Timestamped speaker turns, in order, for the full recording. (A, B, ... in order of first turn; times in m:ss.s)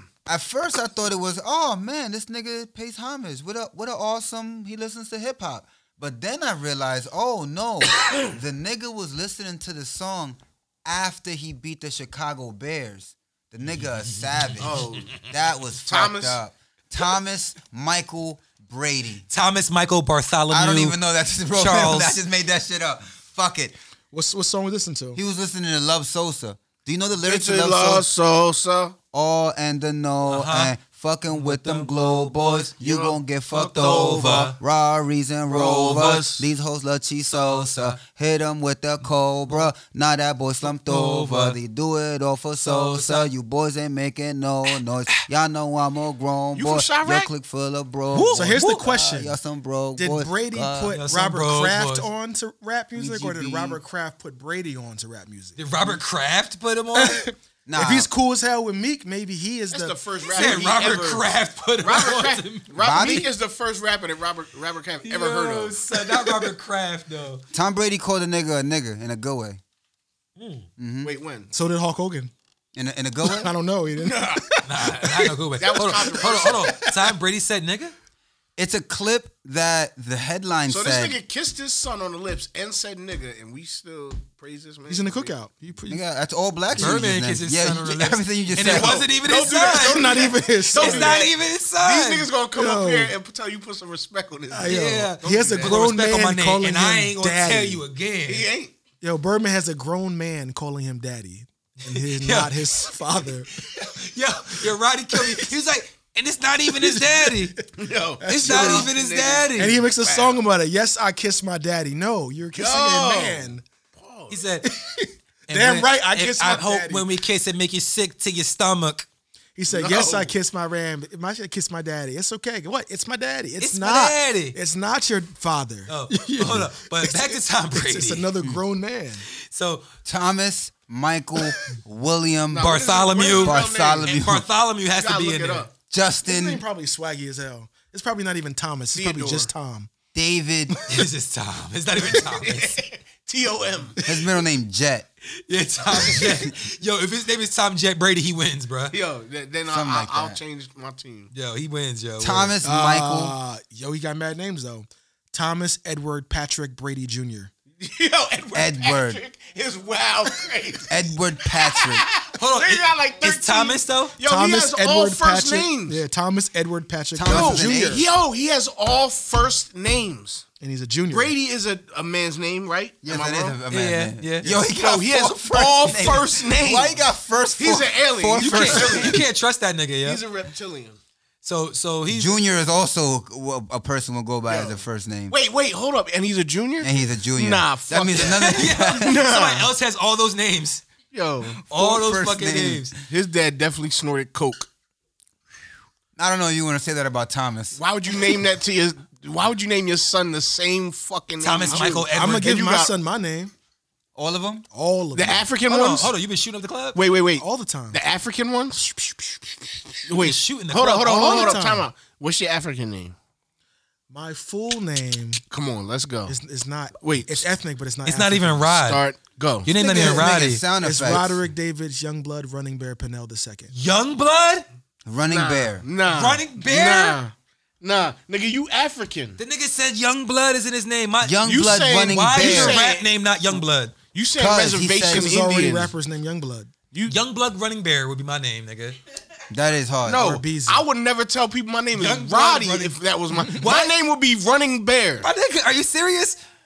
0:00.3-0:19.3 A
0:14.2-0:14.8 B
0:14.6-0:15.2 C
0:15.9-0:16.4 C
0:19.3-0:21.0 B
0:20.5-0:23.8 A
0:21.5-0:22.2 B
0:24.1-0:25.2 D
0:25.1-0:28.1 A
0:27.2-0:29.0 C
0:29.1-0:51.0 A
0:30.3-0:30.7 B
0:31.3-0:32.7 B
0:32.8-0:34.5 C
0:33.6-0:34.6 B
0:35.5-0:36.4 C
0:37.3-0:38.0 B
0:40.6-0:41.6 B
0:42.6-0:43.3 B
0:46.5-0:47.3 C
0:48.1-0:48.9 B
0:48.3-0:49.4 D
0:50.0-0:55.9 D
0:50.9-0:52.1 B
0:53.0-0:53.8 A
0:55.6-0:57.2 B
0:57.0-1:00.7 D
0:57.7-0:58.1 A
0:59.7-1:01.3 C
1:00.3-1:02.7 B
1:01.8-1:06.2 C
1:02.8-1:03.3 A
1:05.0-1:07.4 B
1:07.5-1:09.6 A
1:10.4-1:10.7 B
1:10.8-1:11.1 A
1:11.0-1:11.5 C
1:11.5-1:12.3 D
1:12.8-1:13.5 A
1:13.2-1:15.4 D
1:14.0-1:14.6 C
1:14.6-1:18.0 B
1:15.6-1:16.8 C
1:18.6-1:21.2 A
1:20.7-1:25.4 C
1:24.9-1:26.0 D
1:25.9-1:29.1 A
1:26.8-1:27.0 D
1:26.8-1:32.3 B
1:28.6-1:35.9 C
1:29.7-1:31.2 D
1:32.5-1:33.1 D
1:34.5-1:37.8 D
1:34.6-1:38.5 B
1:38.3-1:38.7 C
1:39.0-1:43.7 D
1:41.8-1:42.9 B
1:43.6-1:47.6 B
1:45.1-1:45.5 D
1:46.7-1:47.7 D
1:47.7-1:50.4 C
1:48.2-1:48.9 D
1:48.3-1:49.8 B
1:49.6-1:53.6 D
1:52.5-1:54.4 C
1:54.3-1:54.7 B
1:54.6-1:57.2 D
1:55.5-1:59.1 B
1:59.6-2:09.3 D
1:59.7-2:00.4 C
2:03.6-2:04.6 B
2:05.9-2:08.3 B
2:09.4-2:09.9 B
2:10.0-2:14.5 A
2:12.5-2:14.3 C
2:12.6-2:15.7 B
2:14.9-2:15.7 C
2:15.9-2:16.6 A
2:16.2-2:19.9 D
2:18.9-2:19.5 C
2:20.1-2:20.8 A
2:20.9-2:22.8 B
2:22.1-2:24.0 C
2:24.0-2:24.3 D
2:24.0-2:25.1 A
2:25.5-2:28.9 B
2:26.2-2:26.5 A
2:28.9-2:31.3 C
2:29.7-2:30.4 A
2:31.3-2:32.5 B
2:32.2-2:33.4 A
2:32.6-2:37.5 D
2:37.8-2:46.0 C
2:38.5-2:39.2 A
2:40.9-2:42.1 A
2:42.4-2:44.2 B
2:44.2-2:48.1 D
2:47.1-2:48.0 A
2:47.3-2:50.4 C
2:50.6-2:51.3 D
2:51.1-2:53.6 C
2:53.0-2:59.2 A
2:53.7-2:54.5 B
2:54.4-2:57.0 C
2:57.6-2:59.3 C
2:58.4-3:00.2 B
3:00.0-3:01.0 C
3:01.4-3:02.4 B
3:02.1-3:05.4 A
3:04.5-3:09.7 C
3:06.8-3:09.2 A
3:08.2-3:10.8 B
3:11.1-3:11.6 C
3:11.7-3:12.9 B
3:11.7-3:13.0 A
3:13.1-3:14.7 C
3:16.2-3:17.8 A
3:17.8-3:22.9 C
3:21.4-3:22.5 B
3:21.7-3:23.5 D
3:24.2-3:24.7 A
3:24.7-3:25.4 D
3:25.1-3:26.1 C
3:25.7-3:27.0 B
3:26.9-3:28.9 C
3:27.4-3:28.0 D
3:30.0-3:33.2 C
3:30.2-3:31.6 B
3:31.1-3:31.9 D
3:34.1-3:35.4 D
3:35.5-3:36.4 C
3:36.3-3:38.7 D
3:37.0-3:37.5 C
3:38.0-3:39.0 B
3:38.8-3:39.7 C
3:39.6-3:40.6 B
3:39.8-3:41.4 A
3:39.9-3:40.2 D
3:40.8-3:43.7 D
3:43.7-3:44.7 B
3:45.0-3:45.8 A
3:45.3-3:49.4 C
3:46.1-3:47.2 B
3:49.4-3:54.0 B
3:51.2-3:52.8 A
3:51.4-3:53.6 C
3:54.1-3:55.9 C
3:54.4-3:55.4 A
3:55.0-3:56.7 D
3:56.9-3:57.2 C
3:57.1-3:59.0 B
3:59.5-4:00.4 A
4:00.0-4:05.3 C
4:00.2-4:00.9 D
4:02.0-4:03.0 B
4:03.6-4:03.9 B
4:05.2-4:06.4 B